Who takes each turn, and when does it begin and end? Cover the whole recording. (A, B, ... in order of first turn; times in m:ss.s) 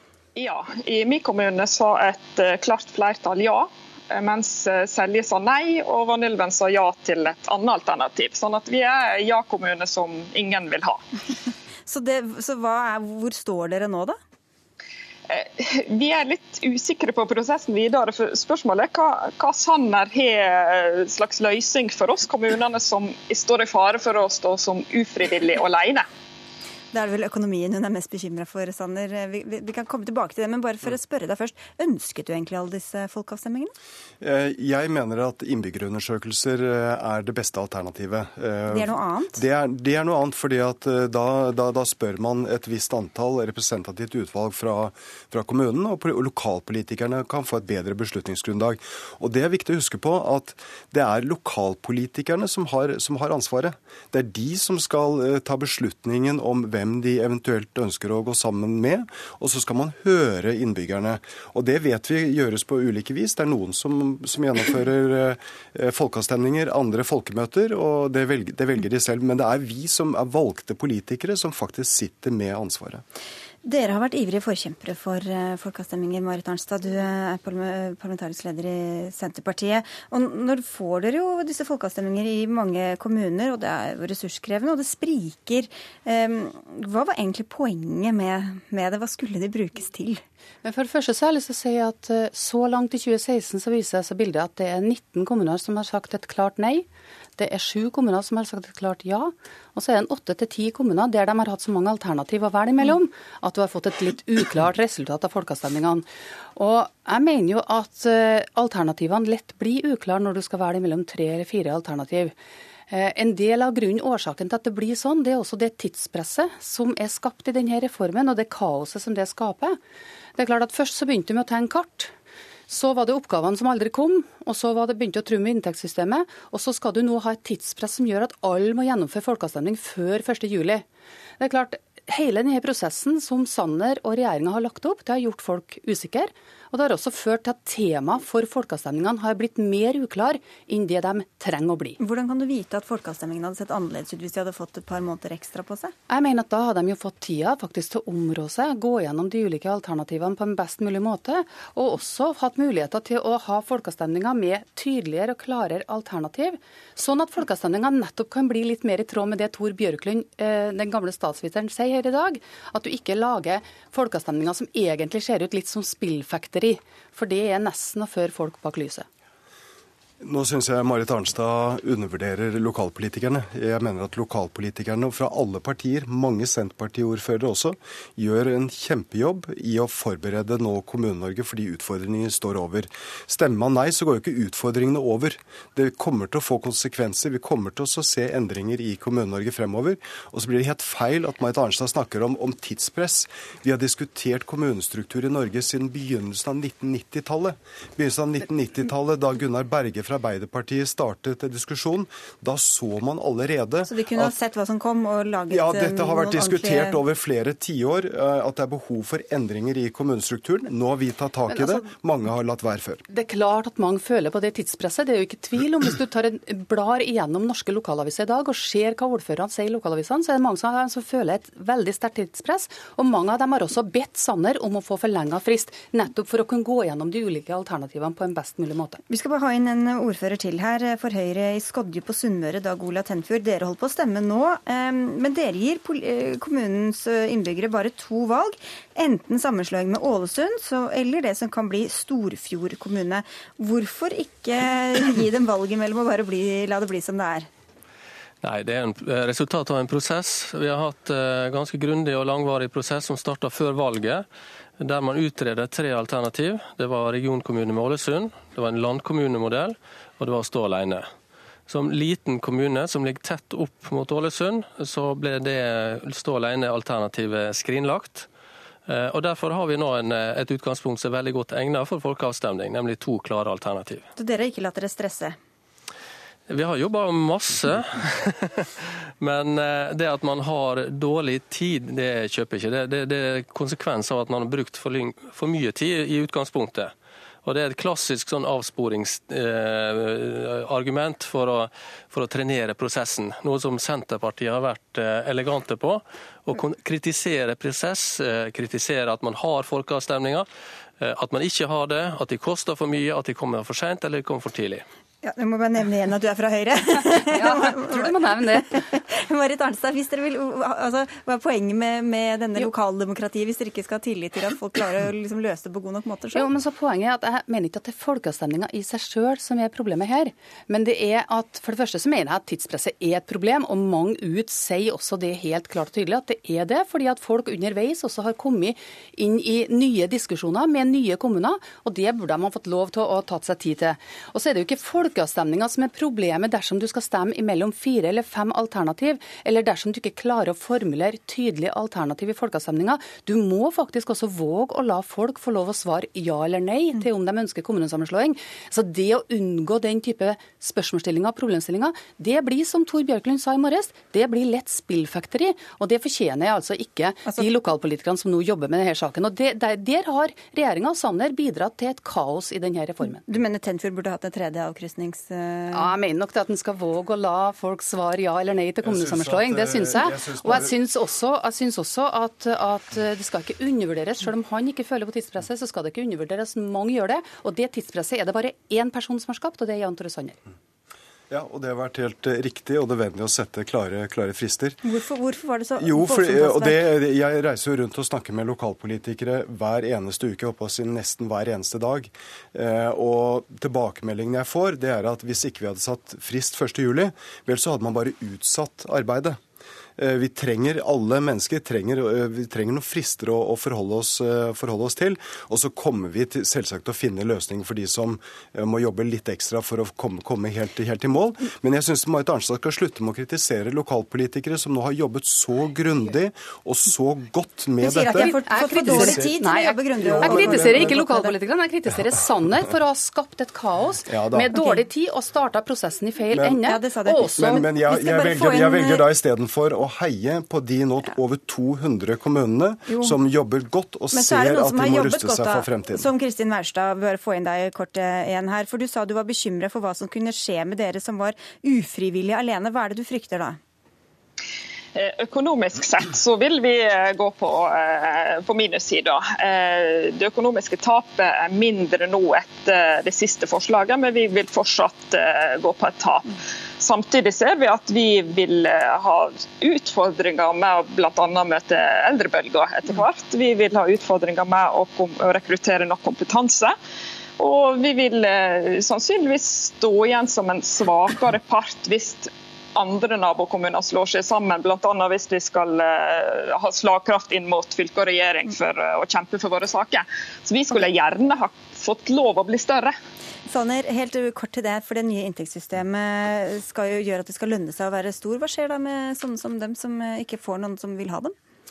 0:00.3-0:11.0 A
0:11.8-0:14.2 B
0:15.3-0:26.1 A
0:26.9-0:33.7 B
0:34.2-1:13.0 C
0:38.7-0:39.4 B
1:13.6-1:30.2 B
1:30.6-1:36.8 D
1:37.4-1:52.3 D
1:52.9-1:59.8 D
2:00.4-2:02.1 D
2:02.7-2:10.8 D
2:11.4-2:22.0 D
2:22.0-2:25.9 B
2:26.1-2:49.1 D
2:50.2-3:24.3 C
3:23.8-3:27.0 B
3:25.5-3:33.0 C
3:31.5-3:31.9 D
3:33.1-3:49.0 D
3:49.1-4:07.5 B
4:08.4-4:14.2 E
4:14.8-4:21.1 E
4:21.7-4:28.3 E
4:28.9-4:34.1 E
4:34.2-4:35.4 B
4:36.5-4:46.9 E
4:47.4-5:00.5 E
5:01.0-5:04.8 E
5:05.2-5:16.5 B
5:07.1-5:08.8 D
5:16.3-6:03.2 D
6:03.2-6:05.9 B
6:05.7-6:20.4 D
6:08.8-6:10.8 C
6:21.3-6:24.8 C
6:24.8-6:26.8 B
6:25.8-6:39.4 C
6:40.0-6:59.3 C
6:57.8-7:01.3 B
6:58.0-7:07.6 D
7:00.0-7:01.1 C
7:04.1-7:04.6 C
7:04.5-7:04.8 B
7:06.3-7:06.7 C
7:06.6-7:09.1 B
7:07.2-7:16.1 C
7:12.9-7:13.2 B
7:14.1-7:23.6 B
7:24.9-7:46.7 A
7:47.4-8:02.9 A
8:03.4-8:11.4 B